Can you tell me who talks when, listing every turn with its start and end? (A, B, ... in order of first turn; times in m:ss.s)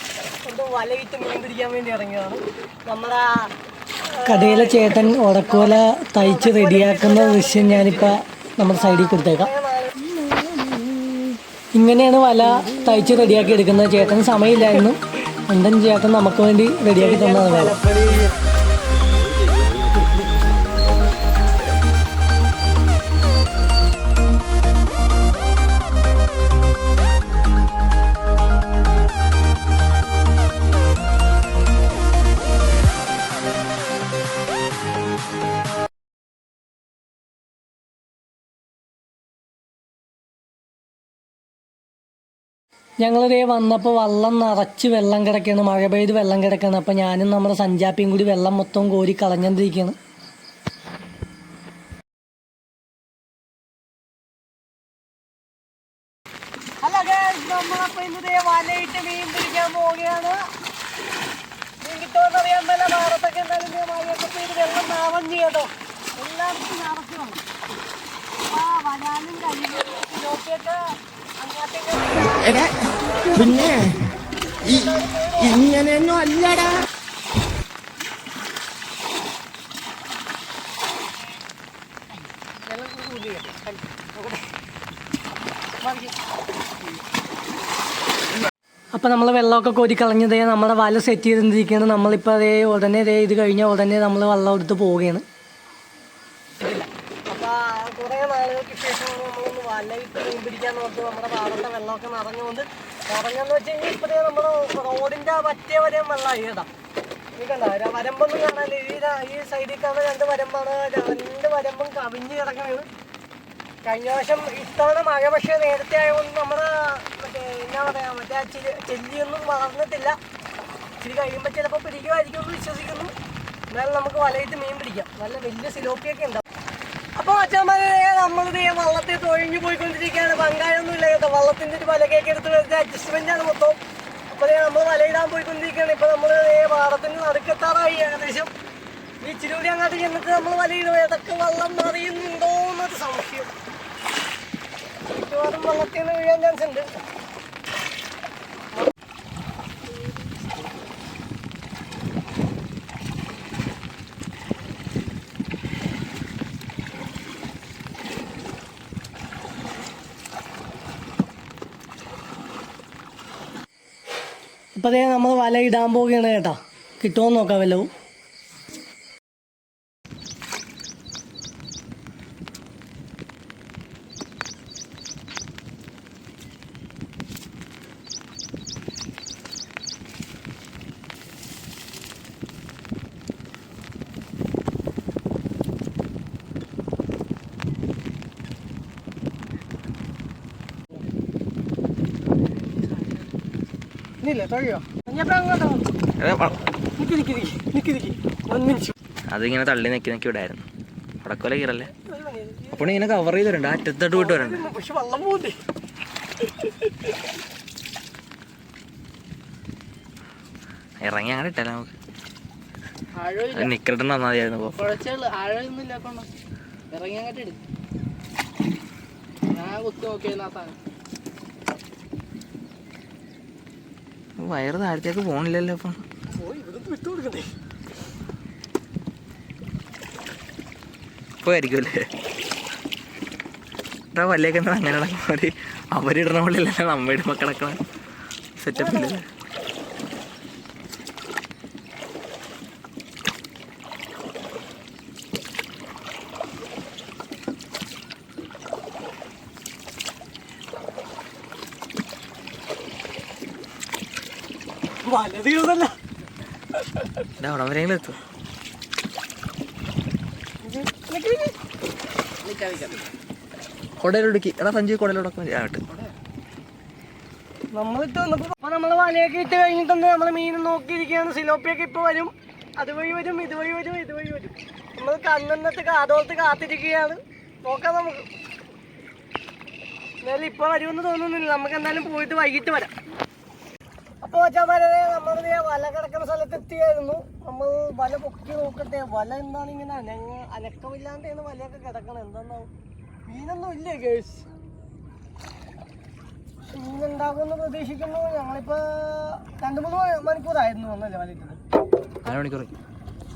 0:00.4-0:03.5 A
0:04.2-0:10.0 A
0:04.3-0:09.5 B
0:11.7-0:18.0 B
0:17.0-0:17.8 A
0:43.0-0:50.0 B
0:56.8-1:00.4 A
1:01.8-1:07.4 A
1:08.5-1:10.8 A
1:11.4-1:13.8 A
1:14.6-1:16.3 A
1:22.6-1:24.4 A
1:25.8-1:26.1 A
1:28.9-1:35.2 B
1:36.6-1:46.7 A
1:47.4-1:52.9 A
1:53.8-2:00.2 A
2:01.0-2:03.1 A
2:03.7-2:06.4 A
2:07.2-2:18.5 A
2:19.2-2:23.5 A
2:25.1-2:26.8 A
2:44.7-2:47.9 B
3:14.2-3:15.8 A
3:16.2-3:16.6 C
3:17.0-3:18.9 A
3:19.3-3:20.6 C
3:21.2-3:21.9 C
3:22.0-3:22.9 A
3:22.7-3:24.7 C
3:24.1-3:25.6 A
3:31.0-3:31.9 C
3:33.2-3:33.7 D
3:33.5-3:34.8 C
3:34.7-3:36.3 D
3:36.9-3:37.6 D
3:39.5-3:40.8 D
3:44.4-3:46.0 C
3:46.3-3:47.5 A
3:51.4-3:52.0 C
3:54.1-3:57.8 C
3:58.6-3:59.2 C
3:58.7-3:59.2 A
4:15.0-4:15.9 A
4:17.4-4:18.2 C
4:20.6-4:21.5 A
4:22.4-4:23.0 D
4:24.0-4:25.8 C
4:27.7-4:38.3 A
4:40.2-4:42.9 A
4:44.2-4:52.7 A
4:53.3-4:54.4 A
4:56.7-5:01.6 A
5:02.2-5:02.7 C